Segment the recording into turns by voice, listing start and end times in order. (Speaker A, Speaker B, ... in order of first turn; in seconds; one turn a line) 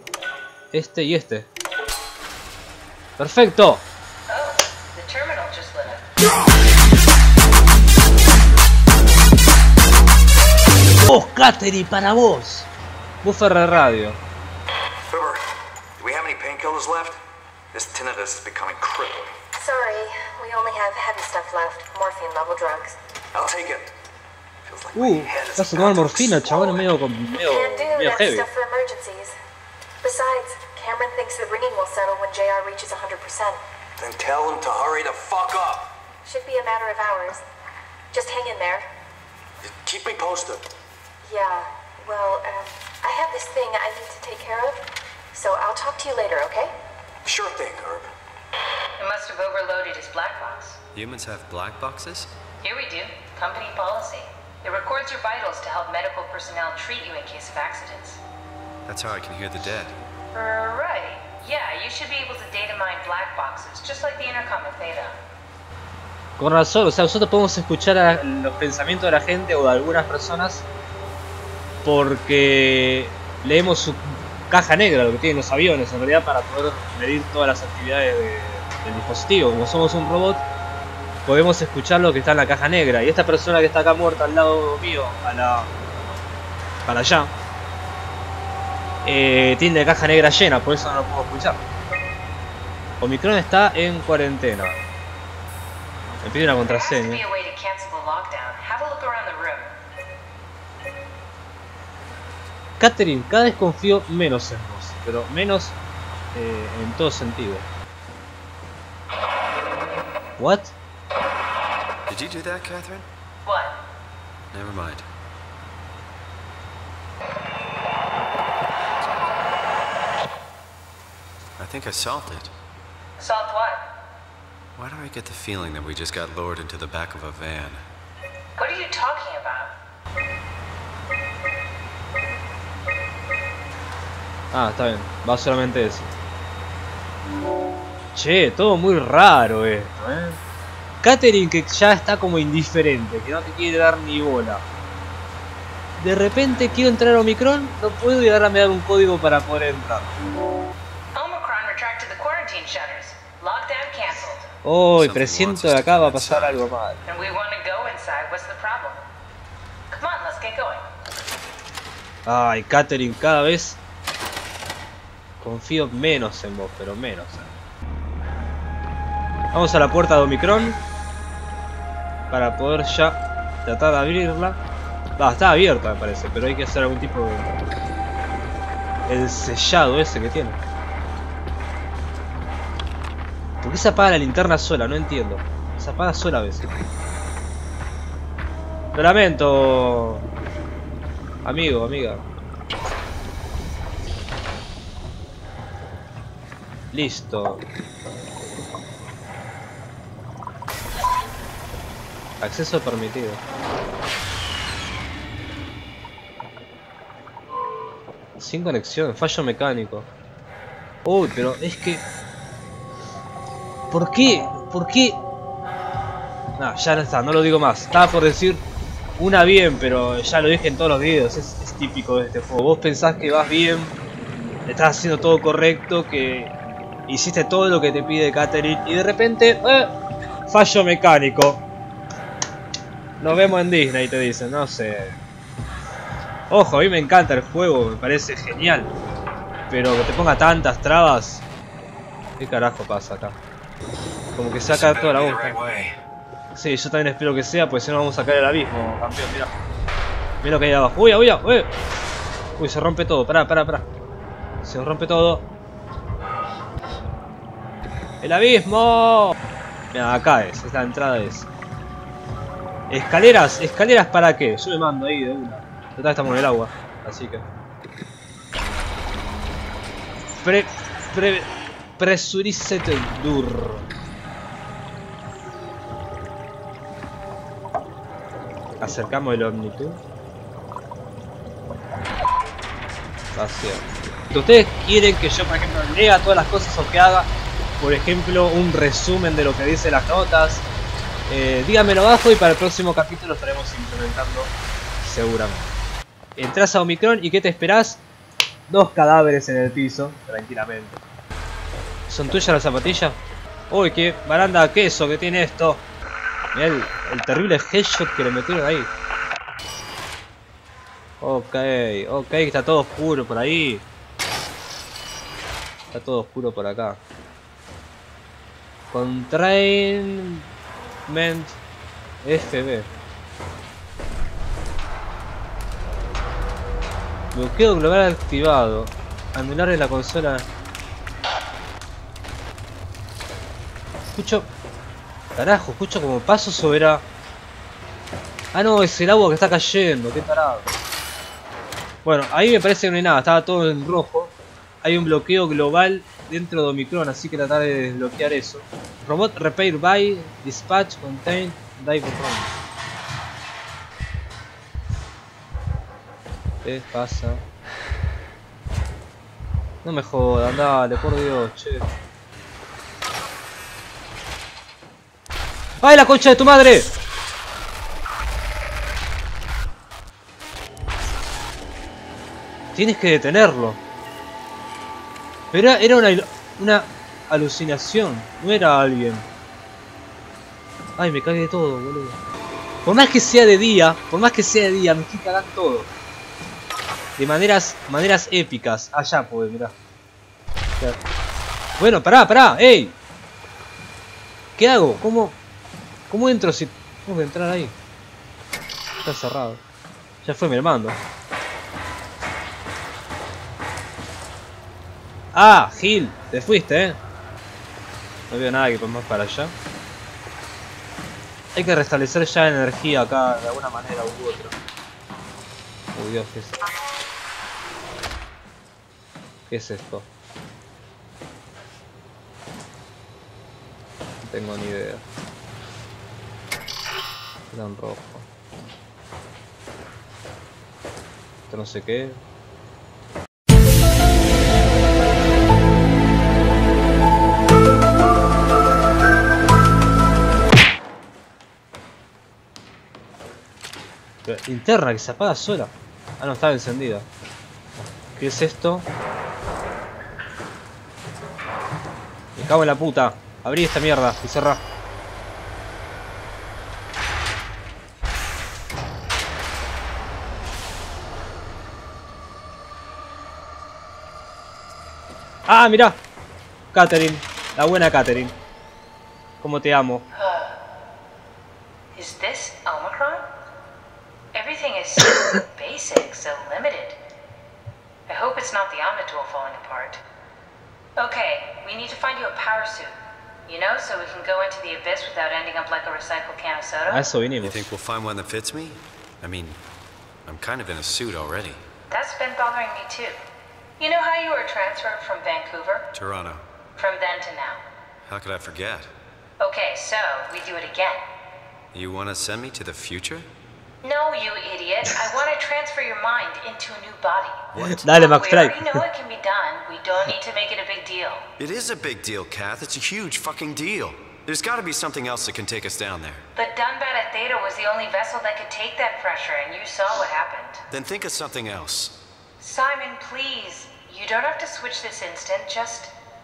Speaker A: 0.7-1.5
Speaker A: 3.2-3.8
Speaker B: 4.3-6.0
Speaker A: 11.1-12.7
Speaker A: 13.2-14.2
Speaker C: 15.1-15.4
Speaker C: 16.0-17.2
Speaker C: 17.7-19.4
Speaker D: 19.5-23.0
Speaker C: 23.3-23.9
Speaker C: 24.6-26.9
Speaker A: 24.9-28.5
Speaker D: 27.4-29.3
Speaker D: 30.0-33.6
Speaker C: 34.0-35.9
Speaker D: 36.2-37.4
Speaker D: 38.1-38.9
Speaker C: 39.6-40.6
Speaker D: 41.2-44.8
Speaker D: 45.3-46.7
Speaker C: 47.2-48.1
Speaker B: 49.0-50.8
Speaker E: 50.9-52.3
Speaker B: 52.6-58.2
Speaker E: 58.9-59.9
Speaker B: 60.3-65.2
Speaker A: 66.4-70.6
Speaker A: 71.8-80.4
Speaker A: 81.2-85.7
Speaker A: 86.8-87.3
Speaker A: 89.0-91.6
Speaker A: 93.0-94.8
Speaker A: 96.2-97.2
Speaker B: 96.6-99.7
Speaker A: 102.8-105.8
Speaker A: 106.3-107.7
Speaker A: 110.4-110.7
Speaker E: 112.1-113.0
Speaker B: 113.4-113.8
Speaker E: 114.5-115.0
Speaker E: 121.6-122.5
Speaker B: 123.2-123.8
Speaker E: 124.8-127.8
Speaker B: 128.6-129.7
Speaker A: 134.5-136.1
Speaker A: 138.1-140.4
Speaker A: 141.0-144.6
Speaker A: 146.0-150.1
Speaker B: 151.1-154.5
Speaker A: 154.6-157.0
Speaker E: 154.9-156.6
Speaker B: 157.0-159.0
Speaker B: 159.9-160.8
Speaker A: 162.2-163.8
Speaker A: 165.4-167.6
Speaker A: 169.5-170.8
Speaker A: 172.3-174.6
Speaker A: 175.2-177.5
Speaker A: 179.1-180.6
Speaker A: 183.6-186.7
Speaker A: 188.9-190.2
Speaker A: 191.4-192.2
Speaker A: 196.9-197.7
Speaker A: 202.4-203.4
Speaker A: 208.4-210.1
Speaker A: 211.0-212.0
Speaker A: 213.9-215.2
Speaker A: 216.6-218.6
Speaker A: 219.2-223.9
Speaker A: 224.7-226.5
Speaker A: 227.1-229.9
Speaker A: 230.5-231.6
Speaker A: 233.2-235.2
Speaker A: 236.5-238.9
Speaker A: 239.7-241.4
Speaker A: 242.4-243.4
Speaker A: 244.3-245.6
Speaker E: 244.7-245.9
Speaker A: 246.5-249.5
Speaker A: 250.4-251.7
Speaker A: 252.6-253.8
Speaker A: 254.6-255.4
Speaker A: 258.2-259.4
Speaker A: 259.9-261.5
Speaker A: 262.9-267.4
Speaker A: 270.4-273.9
Speaker A: 278.8-280.0
Speaker A: 283.3-290.6
Speaker A: 291.3-295.7
Speaker A: 296.4-298.0
Speaker A: 298.7-301.0
Speaker A: 302.1-303.2
Speaker A: 303.7-305.8
Speaker A: 306.5-308.9
Speaker A: 311.2-313.8
Speaker A: 315.9-317.0
Speaker A: 318.9-320.4
Speaker A: 321.1-321.6
Speaker A: 322.2-322.9
Speaker A: 327.3-330.5
Speaker A: 334.1-334.5
Speaker A: 335.4-337.0
Speaker A: 338.5-340.7
Speaker A: 342.0-352.5
Speaker A: 356.6-357.4
Speaker A: 359.8-361.9
Speaker A: 365.8-366.9
Speaker A: 372.7-373.8
Speaker A: 375.5-379.3
Speaker A: 381.0-382.2
Speaker A: 382.8-385.9
Speaker A: 387.2-389.7
Speaker A: 391.8-392.9
Speaker A: 394.6-395.4
Speaker A: 396.1-397.8
Speaker A: 399.0-399.6
Speaker A: 400.2-401.0
Speaker A: 405.3-407.0
Speaker A: 408.3-409.5
Speaker A: 411.5-414.5
Speaker A: 415.9-416.6
Speaker A: 419.5-420.1
Speaker A: 424.2-425.0
Speaker A: 427.5-428.3
Speaker A: 431.5-432.2
Speaker A: 444.2-447.1
Speaker A: 448.1-448.9
Speaker A: 452.4-454.6
Speaker A: 465.5-466.0
Speaker A: 466.7-468.4
Speaker A: 469.4-470.0
Speaker B: 470.1-470.5
Speaker B: 471.9-473.2
Speaker B: 474.3-477.0
Speaker B: 478.1-480.0
Speaker B: 481.0-482.9
Speaker B: 483.5-487.0
Speaker A: 486.9-487.6
Speaker E: 487.4-489.6
Speaker E: 490.2-491.6
Speaker B: 491.9-493.2
Speaker B: 493.8-495.9
Speaker E: 495.9-496.4
Speaker B: 496.8-497.6
Speaker E: 498.0-498.9
Speaker B: 499.4-501.0
Speaker E: 501.7-503.2
Speaker B: 503.8-511.2
Speaker E: 507.5-507.8
Speaker A: 507.6-508.8
Speaker E: 511.4-516.2
Speaker B: 516.3-520.6
Speaker E: 520.7-521.9
Speaker B: 522.4-525.9